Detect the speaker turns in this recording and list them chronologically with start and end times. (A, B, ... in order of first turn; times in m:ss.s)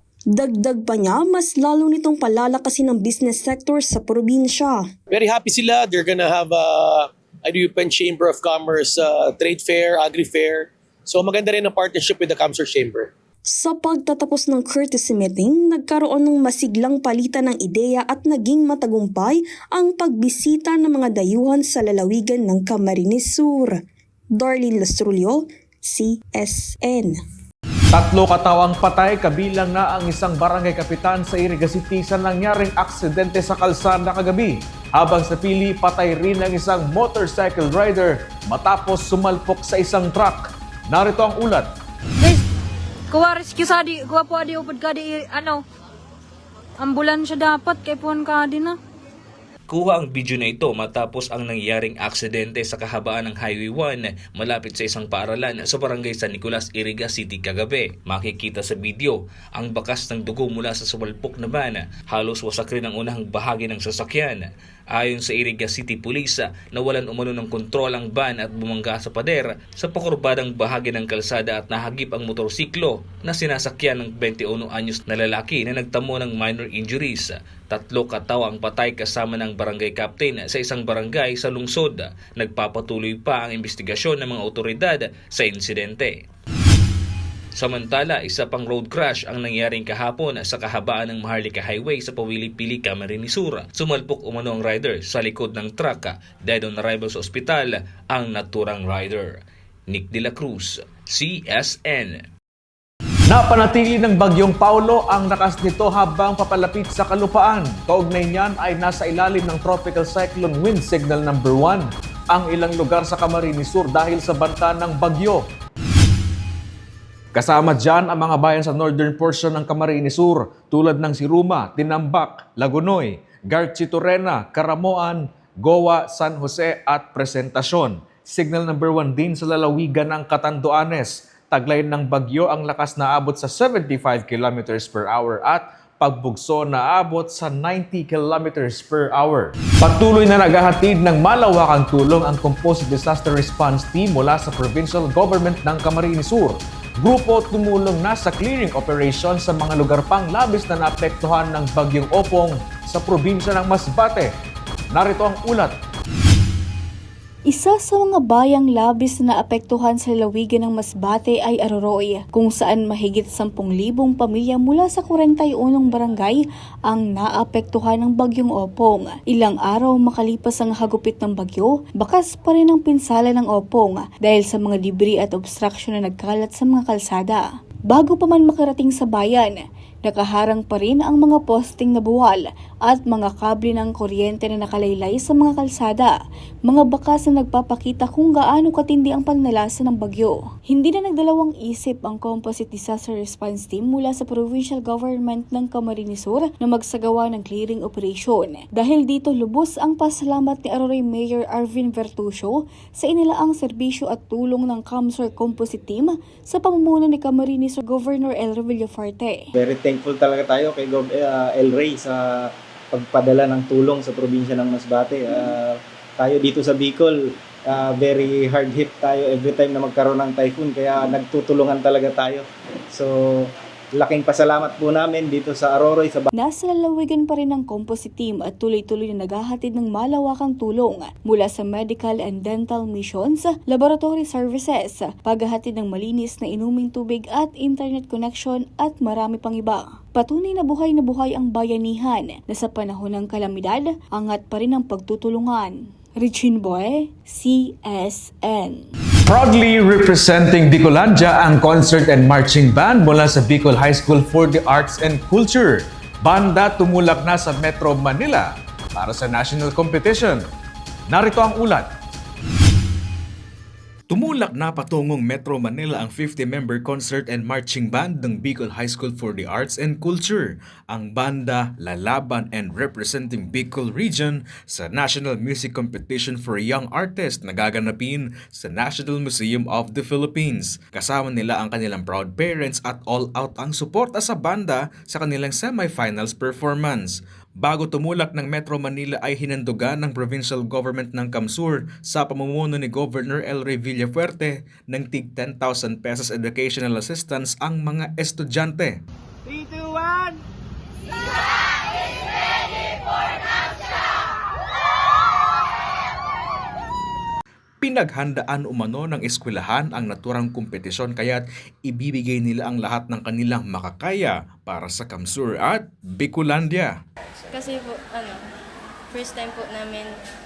0:00.3-0:04.8 A
0:05.1-0:13.1 B
0:13.5-0:23.8 A
0:24.4-0:27.2 A
0:27.9-0:41.7 C
0:43.1-0:45.6 D
0:46.8-0:48.8 D
0:49.7-1:26.2 E
1:27.6-1:39.4 E
1:39.9-1:42.2 E
1:43.3-1:55.4 C
1:57.3-2:34.3 C
2:34.9-2:35.7 C
2:37.5-2:46.4 F
2:46.9-3:06.1 F
3:06.7-3:29.4 F
3:29.6-3:46.3 G
3:46.4-4:08.8 F
4:09.3-4:20.4 C
4:21.1-4:21.9 C
4:24.1-4:58.9 C
5:07.8-5:17.0 C
5:17.5-5:18.4 H
5:19.1-5:20.2 H